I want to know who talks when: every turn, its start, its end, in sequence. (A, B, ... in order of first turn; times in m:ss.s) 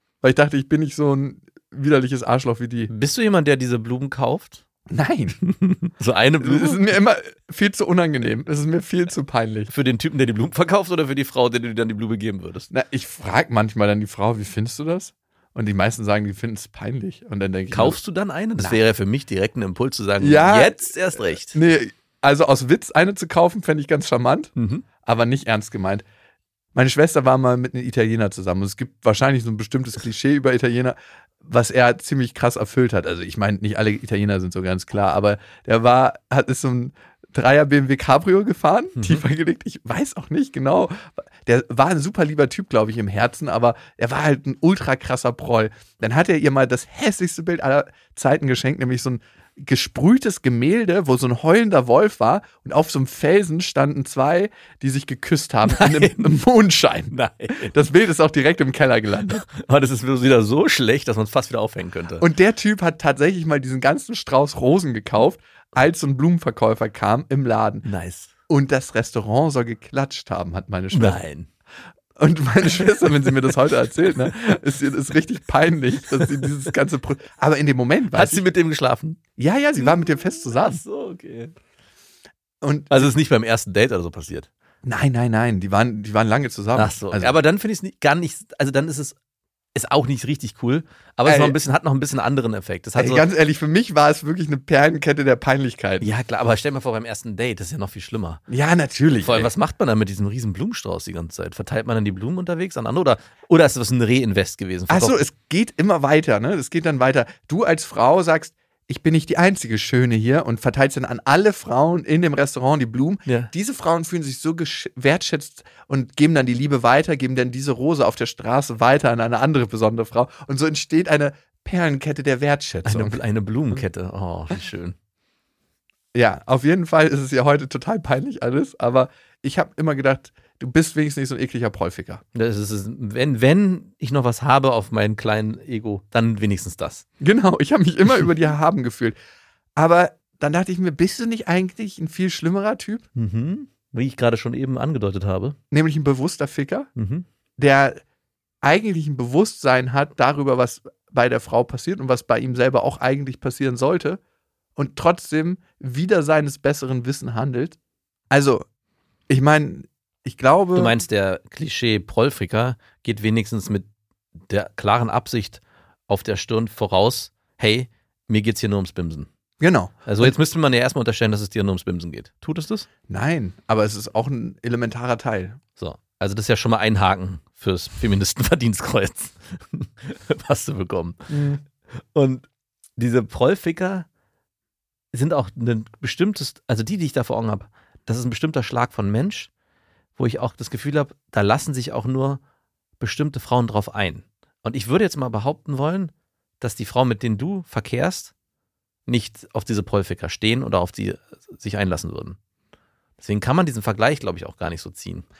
0:00.2-0:02.9 A
0:02.9-0:04.6 B
0:04.9-0:05.4 A
0:05.4-0:06.9 B
0:06.4-0:09.7 A
0:09.7-0:12.7 B
0:12.7-0:18.0 A
0:17.7-0:21.6 B
0:20.2-0:24.5 A
0:24.6-0:24.8 B
0:25.0-0:26.0 A
0:26.7-0:59.4 A
0:39.0-0:39.2 B
0:55.7-0:56.4 B
0:57.1-0:57.9 B
0:59.3-1:02.2 B
1:02.2-1:07.8 A
1:07.8-1:08.3 B
1:08.5-1:11.2 A
1:10.9-1:11.5 B
1:12.2-1:18.4 A
1:13.0-1:13.3 B
1:18.1-1:19.2 B
1:19.4-1:20.8 A
1:19.8-1:21.5 B
1:22.6-1:23.1 A
1:22.9-1:24.5 B
1:24.8-1:27.4 A
1:26.7-1:29.2 B
1:29.7-1:33.2 B
1:31.2-1:31.6 A
1:33.0-1:36.1 A
1:36.0-1:38.4 B
1:38.5-1:39.5 A
1:39.2-1:45.2 B
1:44.9-2:03.2 A
1:53.2-1:53.5 B
2:02.8-2:05.0 B
2:06.1-2:12.2 A
2:12.3-2:17.0 B
2:17.2-2:19.2 A
2:19.8-2:23.1 A
2:23.2-2:25.6 B
2:25.7-2:26.9 A
2:27.0-2:27.2 B
2:27.6-2:28.0 A
2:28.6-2:34.2 A
2:34.8-2:37.8 A
2:38.3-2:38.6 A
2:39.3-2:41.0 A
2:40.7-2:43.9 B
2:44.4-2:49.3 B
2:49.6-2:50.4 A
2:50.0-2:52.9 B
2:53.1-2:55.6 A
2:55.8-3:01.4 B
3:01.3-3:01.6 A
3:02.1-3:04.0 B
3:05.1-3:09.5 B
3:10.2-3:12.4 B
3:13.0-3:18.3 B
3:19.1-3:22.4 B
3:23.2-3:25.2 B